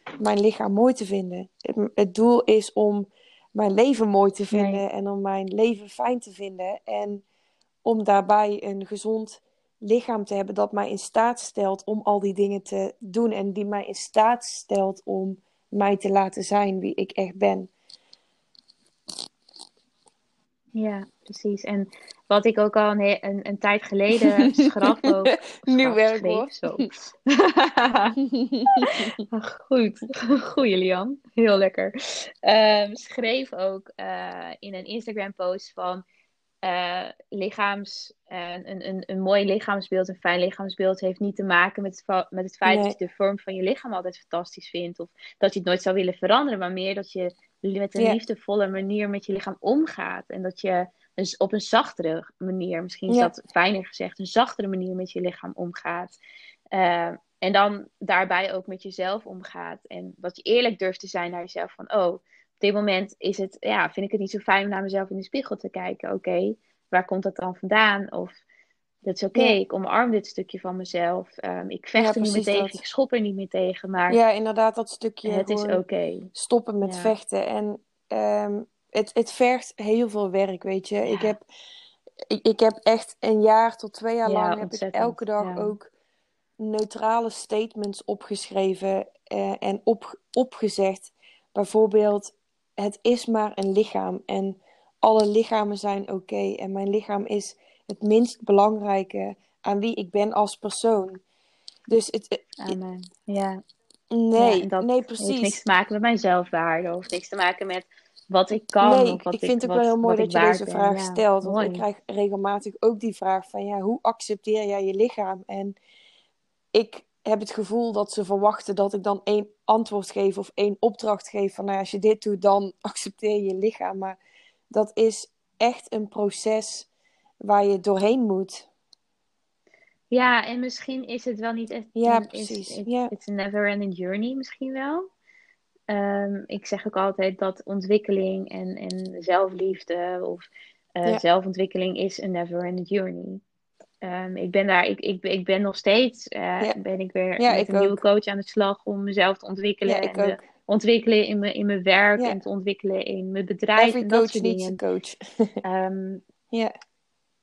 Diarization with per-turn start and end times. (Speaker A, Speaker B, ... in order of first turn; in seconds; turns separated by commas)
Speaker A: 0.2-7.2, Speaker B: 4.5-4.8, Speaker A: 7.8-17.7, Speaker B: 20.7-28.2, Speaker A: 24.2-26.8, Speaker A: 28.2-29.1, Speaker B: 28.7-36.0, Speaker B: 36.6-56.2, Speaker A: 42.6-42.9, Speaker B: 56.7-68.4, Speaker B: 69.0-74.2, Speaker A: 72.0-72.8, Speaker A: 74.1-75.8, Speaker B: 75.2-76.3, Speaker A: 76.3-81.4, Speaker B: 76.8-77.1, Speaker B: 81.0-81.3, Speaker A: 82.3-85.9, Speaker B: 84.2-85.7, Speaker A: 86.6-101.2, Speaker A: 101.9-102.8, Speaker B: 102.6-103.6, Speaker A: 104.1-105.6, Speaker B: 104.3-111.8, Speaker A: 108.8-115.8, Speaker A: 116.7-124.2, Speaker A: 124.7-126.9, Speaker A: 127.4-128.7, Speaker B: 130.1-135.1, Speaker A: 131.9-133.1, Speaker B: 135.9-143.4, Speaker B: 144.0-154.8, Speaker A: 147.4-148.0, Speaker A: 149.8-150.4, Speaker A: 153.8-155.5, Speaker B: 155.6-156.2